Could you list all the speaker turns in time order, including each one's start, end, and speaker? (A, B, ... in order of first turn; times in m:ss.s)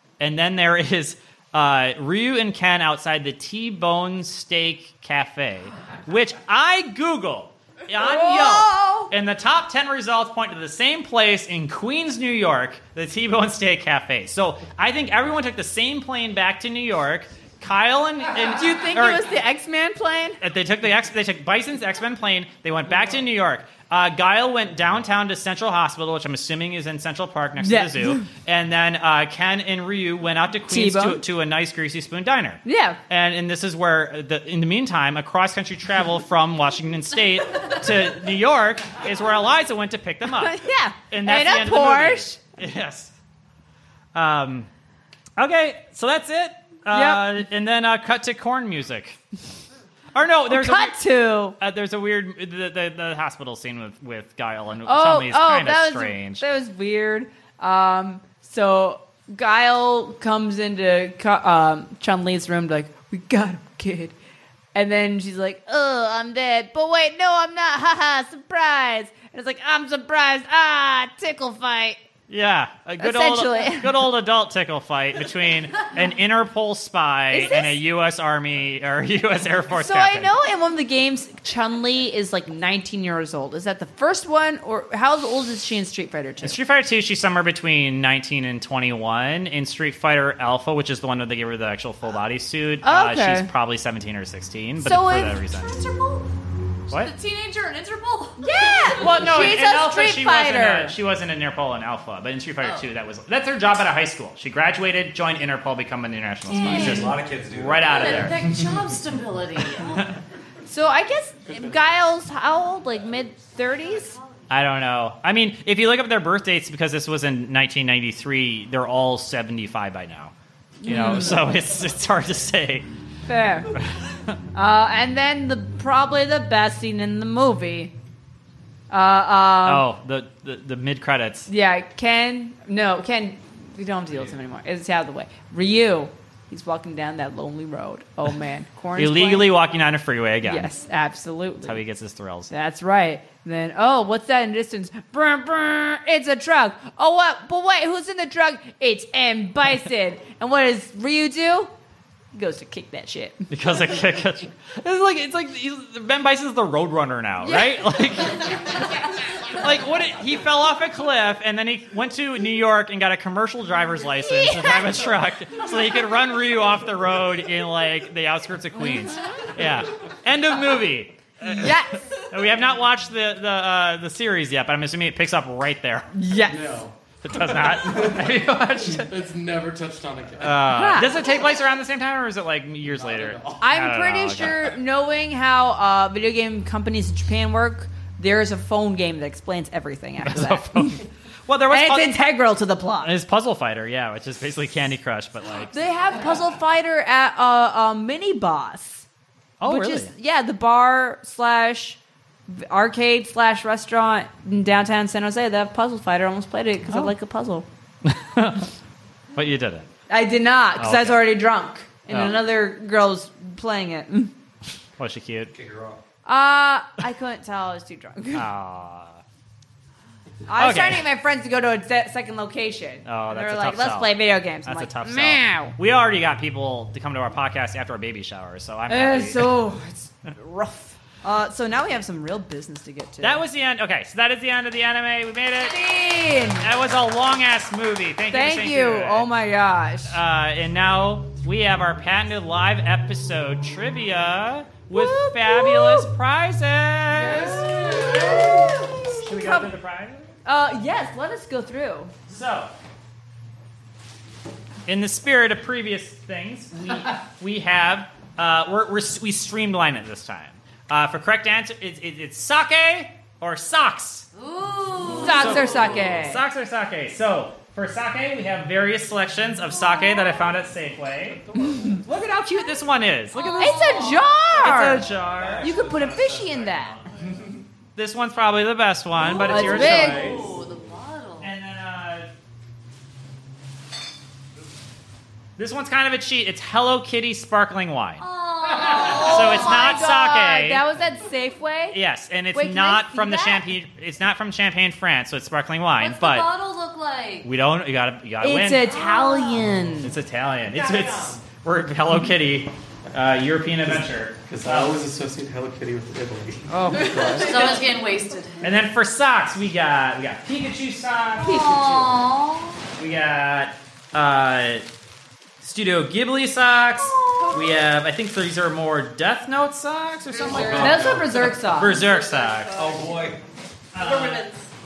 0:00.2-0:19.3 A
0:08.0-0:09.1 B
0:18.5-0:20.4 B
0:20.4-0:43.1 A
0:27.6-0:28.3 B
0:30.7-0:31.2 B
0:32.6-0:33.0 B
0:40.3-0:42.4 B
0:44.1-0:44.7 A
0:45.4-0:49.2 A
0:46.9-0:47.4 B
0:50.1-0:51.0 A
0:50.5-0:51.6 B
0:51.6-0:56.4 A
0:54.8-1:04.1 B
1:04.7-1:12.0 B
1:12.3-1:20.3 A
1:13.0-1:14.0 B
1:17.3-1:17.8 B
1:19.7-1:26.6 B
1:26.4-1:35.8 A
1:32.8-1:33.5 B
1:34.8-1:35.4 B
1:35.6-1:36.3 C
1:36.9-1:39.1 C
1:38.4-1:41.0 B
1:39.0-1:48.6 A
1:46.5-1:47.0 B
1:46.6-1:48.2 D
1:46.6-1:47.0 C
1:47.8-1:50.0 C
1:49.8-1:50.2 A
1:50.6-1:54.2 B
1:54.5-2:00.3 A
2:00.8-2:01.5 B
2:00.8-2:02.9 A
2:03.3-2:03.7 B
2:03.7-2:04.3 A
2:04.5-2:07.9 B
2:08.9-2:09.9 B
2:09.6-2:11.5 A
2:11.5-2:19.5 B
2:18.9-2:20.7 A
2:20.4-2:21.8 B
2:21.6-2:22.5 A
2:22.5-2:31.7 B
2:32.3-2:33.5 B
2:33.5-2:56.1 A
2:37.4-2:37.9 B
2:44.4-2:44.9 B
2:51.4-2:52.0 B
2:56.1-2:56.8 B
2:56.4-3:01.0 E
2:57.2-2:59.1 A
3:00.4-3:04.7 A
3:00.7-3:01.2 B
3:02.8-3:03.6 E
3:03.6-3:11.0 B
3:10.2-3:12.2 A
3:11.7-3:13.1 B
3:13.0-3:15.7 A
3:15.7-3:19.0 B
3:19.6-3:20.1 A
3:19.6-3:27.6 B
3:28.0-3:28.7 A
3:29.3-3:29.9 A
3:30.1-3:34.3 B
3:30.8-3:31.2 A
3:32.1-3:32.4 A
3:35.0-3:35.5 A
3:35.5-3:36.0 D
3:36.2-3:38.4 B
3:38.3-3:39.2 A
3:40.5-3:45.7 B
3:40.6-3:41.1 A
3:43.0-3:49.6 A
3:48.9-3:53.4 B
3:53.2-3:55.8 A
3:55.6-3:56.7 B
3:56.5-3:59.3 A
3:58.3-4:00.2 B
4:00.1-4:10.3 A
4:04.9-4:06.1 B
4:07.1-4:09.7 B
4:10.4-4:12.1 B
4:12.3-4:12.7 A
4:14.9-4:24.3 A
4:24.3-4:25.6 C
4:25.2-4:31.4 A
4:25.2-4:26.4 B
4:31.6-4:32.0 B
4:32.0-4:34.0 A
4:33.3-4:34.3 C
4:33.6-4:35.1 B
4:34.6-4:35.8 A
4:35.0-4:37.6 D
4:35.6-4:37.0 B
4:38.0-4:40.4 A
4:39.2-4:41.5 C
4:39.3-4:40.4 B
4:39.7-4:40.5 D
4:41.4-4:42.3 A
4:45.6-4:50.8 A
4:48.2-4:50.1 C
4:48.8-4:52.0 B
4:51.9-4:56.5 A
4:52.5-4:53.6 B
4:56.0-4:57.5 C
4:57.4-4:58.9 A
4:58.4-5:00.1 B
4:58.9-4:59.6 C
5:00.0-5:05.0 A
5:00.8-5:01.4 C
5:03.8-5:07.8 E
5:06.7-5:07.8 B
5:07.3-5:08.7 C
5:08.6-5:11.6 A
5:11.4-5:12.8 C
5:11.4-5:12.1 B
5:13.0-5:14.8 A
5:15.6-5:22.9 A
5:17.0-5:17.8 C
5:20.4-5:20.9 C
5:20.4-5:21.3 D
5:20.8-5:22.1 B
5:21.9-5:23.0 C
5:22.7-5:23.4 D
5:23.9-5:24.5 A
5:24.0-5:24.6 C